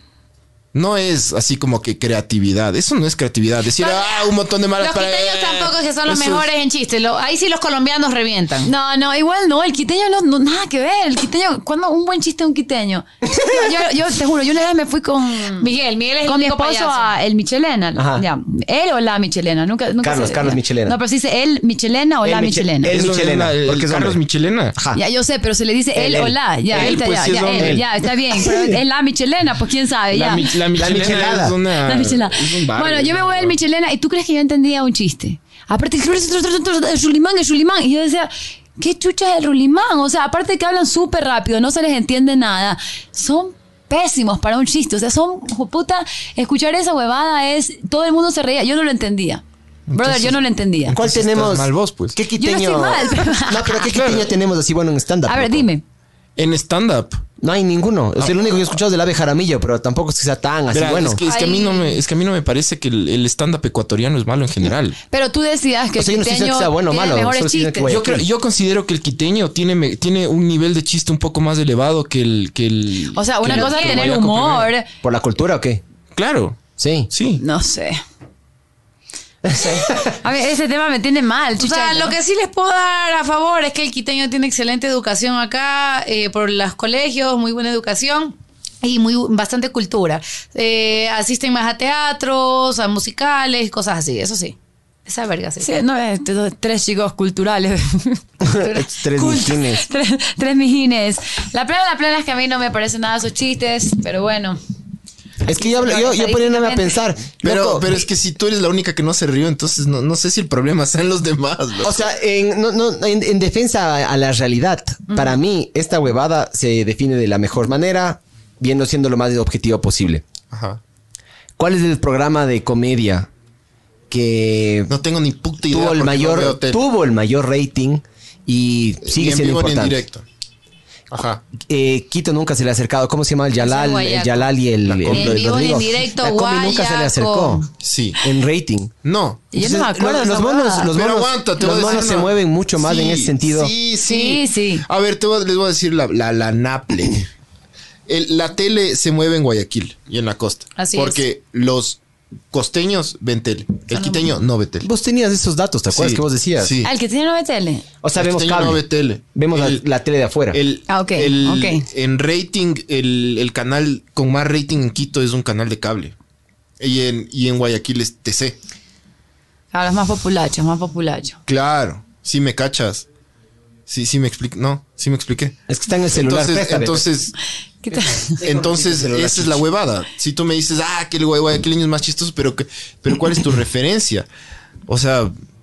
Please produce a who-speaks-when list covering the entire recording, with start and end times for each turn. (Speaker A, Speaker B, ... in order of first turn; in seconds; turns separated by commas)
Speaker A: 0.7-6.5, Speaker B: 3.8-8.7, Speaker C: 8.6-15.7, Speaker D: 13.3-13.6, Speaker B: 15.6-17.1, Speaker C: 16.2-23.0, Speaker D: 18.0-18.2, Speaker D: 20.0-21.0, Speaker D: 22.2-24.2, Speaker A: 22.9-24.8, Speaker D: 24.8-25.0, Speaker C: 24.9-30.5, Speaker D: 25.9-26.9, Speaker A: 26.7-27.8, Speaker D: 27.6-27.9, Speaker D: 28.5-28.7, Speaker A: 30.1-33.6, Speaker D: 30.7-31.6, Speaker C: 31.8-49.4, Speaker A: 49.9-52.2, Speaker C: 50.0-51.0, Speaker D: 50.9-55.7, Speaker C: 52.4-53.9, Speaker A: 53.9-54.3, Speaker C: 55.3-55.8, Speaker A: 56.4-57.2, Speaker D: 57.4-61.2, Speaker A: 60.7-65.0, Speaker C: 61.3-62.0, Speaker C: 65.1-68.0, Speaker D: 66.0-68.2, Speaker A: 67.9-74.7, Speaker C: 73.2-74.9, Speaker B: 73.5-74.1, Speaker D: 75.0-75.8, Speaker A: 76.1-76.6, Speaker D: 76.8-77.1, Speaker A: 77.1-77.4, Speaker C: 77.4-78.0, Speaker D: 79.5-80.2, Speaker C: 79.5-82.2, Speaker B: 81.6-95.7, Speaker C: 95.6-104.6, Speaker D: 98.4-99.8, Speaker D: 105.4-108.0, Speaker C: 105.5-107.0, Speaker A: 107.4-112.0, Speaker D: 111.8-120.2, Speaker A: 120.5-120.8, Speaker D: 121.6-123.3, Speaker D: 124.1-124.9, Speaker A: 124.9-126.8, Speaker D: 125.7-130.0, Speaker A: 129.0-130.2, Speaker A: 131.1-131.4, Speaker D: 131.6-137.7, Speaker B: 133.6-134.5, Speaker A: 134.8-135.8, Speaker B: 135.1-137.7, Speaker A: 137.8-138.2, Speaker D: 138.2-138.9, Speaker A: 139.0-139.4, Speaker C: 139.5-140.9, Speaker D: 139.6-143.7, Speaker A: 140.9-147.3, Speaker C: 144.0-144.8, Speaker A: 148.1-152.0, Speaker B: 150.8-151.2, Speaker A: 152.5-154.9, Speaker D: 154.8-156.7, Speaker A: 155.9-156.9, Speaker C: 156.8-157.8, Speaker D: 158.0-160.6, Speaker A: 158.2-159.8, Speaker A: 160.5-166.1, Speaker C: 160.9-161.9, Speaker A: 166.8-168.6, Speaker C: 169.7-171.4, Speaker A: 171.5-173.1, Speaker A: 173.9-175.6, Speaker D: 175.7-177.1, Speaker A: 176.1-177.3, Speaker C: 177.8-178.4, Speaker D: 178.3-179.6, Speaker A: 178.4-184.3, Speaker A: 184.9-185.3